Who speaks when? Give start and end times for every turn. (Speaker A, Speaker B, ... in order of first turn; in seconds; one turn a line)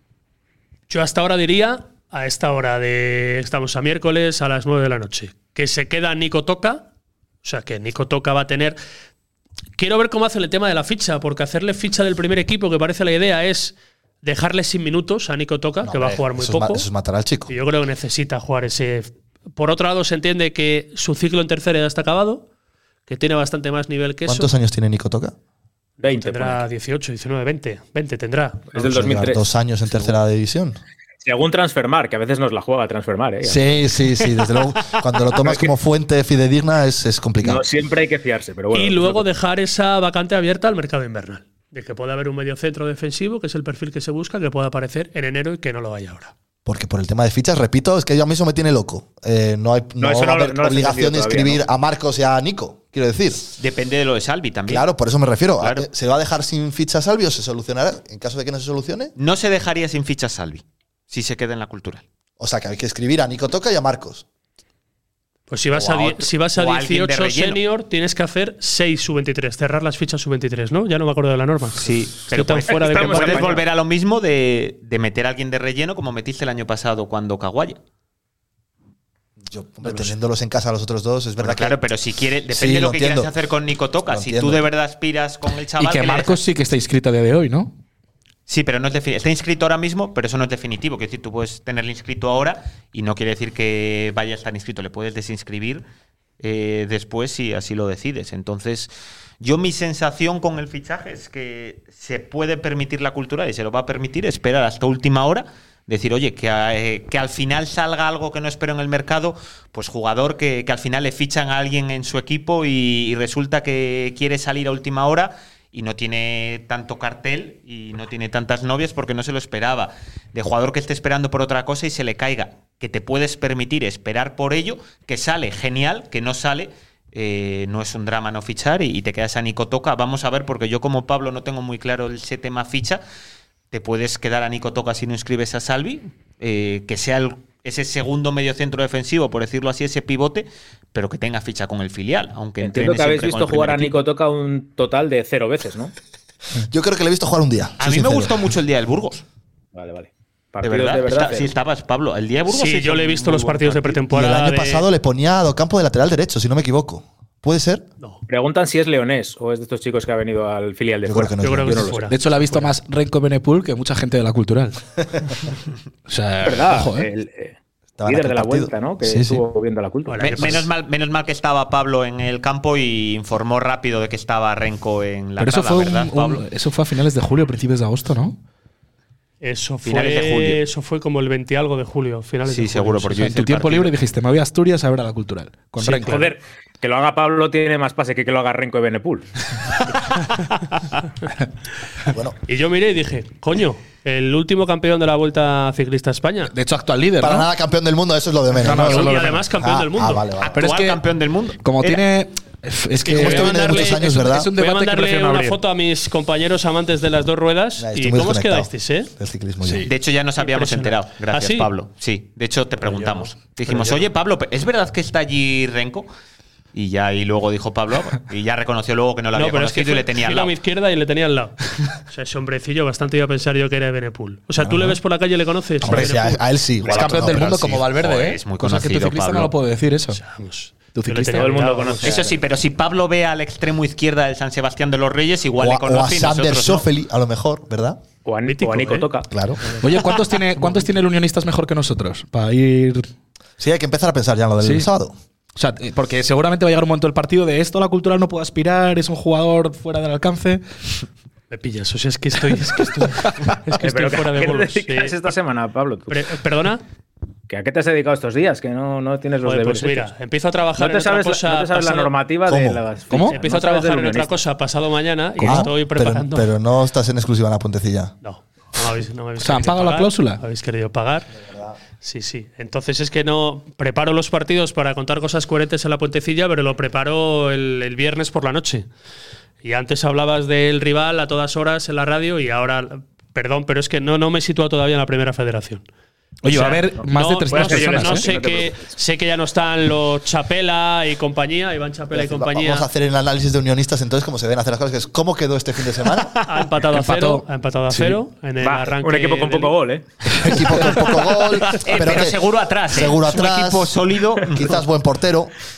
Speaker A: 0.9-6.8
Speaker A: 7.4-8.8
Speaker A: 9.8-16.9
Speaker B: 15.8-17.5
Speaker A: 17.5-22.4
Speaker A: 23.1-24.5
Speaker B: 24.3-25.3
Speaker C: 26.0-26.6
Speaker A: 26.0-28.9
Speaker C: 28.7-29.4
Speaker B: 28.8-30.8
Speaker C: 31.2-33.8
Speaker B: 33.4-37.6
Speaker C: 35.4-35.7
Speaker C: 37.4-39.3
Speaker A: 38.7-46.3
Speaker B: 46.6-53.4
Speaker C: 50.0-51.6
Speaker D: 53.5-54.9
Speaker B: 54.7-59.1
Speaker D: 55.6-55.9
Speaker D: 59.2-62.0
Speaker B: 62.4-64.2
Speaker A: 65.5-73.6
Speaker D: 65.7-67.6
Speaker D: 71.8-77.8
Speaker C: 72.7-73.6
Speaker B: 79.4-81.8
Speaker D: 81.4-86.4
Speaker B: 82.5-83.3
Speaker B: 84.1-84.6
Speaker E: 85.8-87.8
Speaker D: 88.5-95.8
Speaker D: 96.4-133.0
Speaker D: 133.7-144.0
Speaker C: 142.6-145.9
Speaker B: 146.7-148.3
Speaker D: 147.8-149.2
Speaker C: 149.7-151.5
Speaker D: 150.6-154.0
Speaker A: 152.5-154.8
Speaker B: 154.1-157.8
Speaker C: 158.3-162.0
Speaker B: 161.0-161.9
Speaker A: 161.4-162.7
Speaker E: 162.1-164.8
Speaker E: 166.1-167.1
Speaker C: 166.4-170.7
Speaker B: 168.0-169.4
Speaker A: 170.1-170.7
Speaker D: 170.2-176.4
Speaker E: 175.4-178.4
Speaker A: 179.4-183.2
Speaker D: 179.8-180.6
Speaker D: 182.4-183.9
Speaker E: 183.1-186.2
Speaker C: 185.8-189.2
Speaker B: 192.1-192.4
Speaker A: 192.4-196.5
Speaker E: 196.4-197.5
Speaker B: 197.2-200.6
Speaker E: 198.6-199.5
Speaker A: 198.7-200.2
Speaker D: 200.5-201.9
Speaker E: 200.5-201.0
Speaker E: 201.6-205.6
Speaker B: 203.0-204.5
Speaker A: 203.1-209.1
Speaker B: 207.8-209.9
Speaker D: 209.8-216.1
Speaker A: 210.4-211.7
Speaker A: 212.8-214.1
Speaker D: 216.7-220.5
Speaker A: 219.3-226.4
Speaker B: 224.6-225.0
Speaker B: 225.8-227.9
Speaker E: 226.8-230.2
Speaker D: 227.7-229.5
Speaker A: 230.1-232.2
Speaker E: 230.9-231.8
Speaker C: 231.3-232.3
Speaker D: 232.0-236.9
Speaker B: 235.6-238.0
Speaker C: 238.2-239.3
Speaker A: 238.4-239.1
Speaker B: 239.3-239.6
Speaker E: 239.8-243.1
Speaker B: 243.6-245.1
Speaker E: 244.6-244.9
Speaker E: 245.6-250.6
Speaker A: 251.5-255.3
Speaker C: 253.8-256.2
Speaker A: 256.1-256.8
Speaker C: 257.5-260.1
Speaker A: 259.4-262.1
Speaker C: 260.8-264.4
Speaker B: 262.5-262.8
Speaker E: 263.1-263.4
Speaker A: 263.2-266.5
Speaker E: 265.4-265.7
Speaker B: 265.4-268.1
Speaker A: 268.2-271.3
Speaker E: 269.4-270.4
Speaker A: 272.0-278.9
Speaker A: 279.6-285.8
Speaker E: 286.4-288.3
Speaker A: 286.5-292.9
Speaker C: 286.7-288.9
Speaker B: 292.1-296.3
Speaker A: 296.4-299.7
Speaker E: 296.9-298.2
Speaker C: 298.6-300.1
Speaker B: 300.4-305.5
Speaker D: 301.7-304.8